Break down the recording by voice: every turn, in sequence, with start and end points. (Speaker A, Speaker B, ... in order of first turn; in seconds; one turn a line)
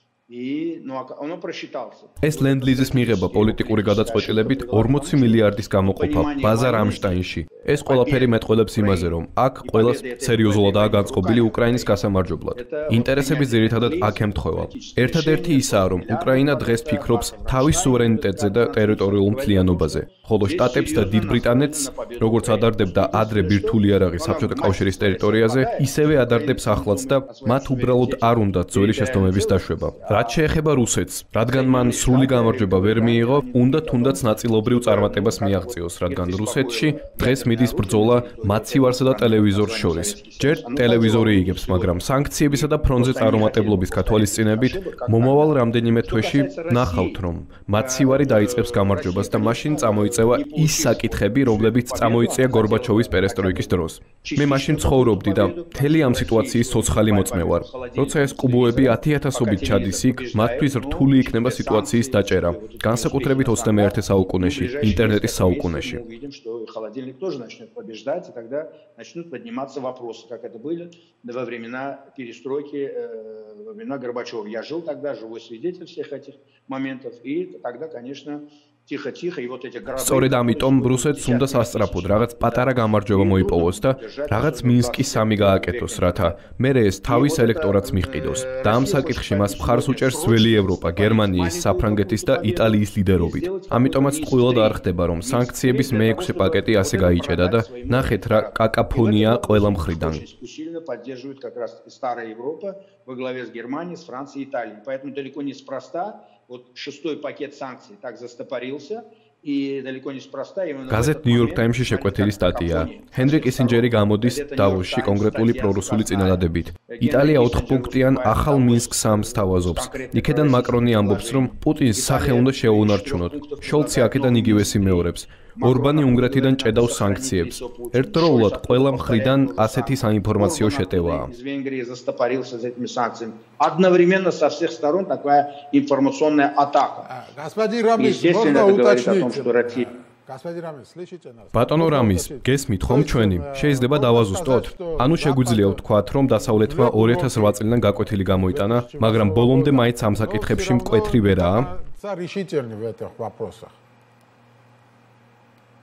Speaker A: 0.3-12.0
Speaker B: 2.2-66.0
Speaker A: 12.5-30.4
Speaker A: 31.5-47.2
Speaker A: 47.8-86.4
Speaker B: 80.0-100.2
Speaker A: 87.0-137.1
Speaker B: 110.9-131.3
Speaker C: 137.0-153.7
Speaker A: 138.0-139.9
Speaker B: 141.5-151.7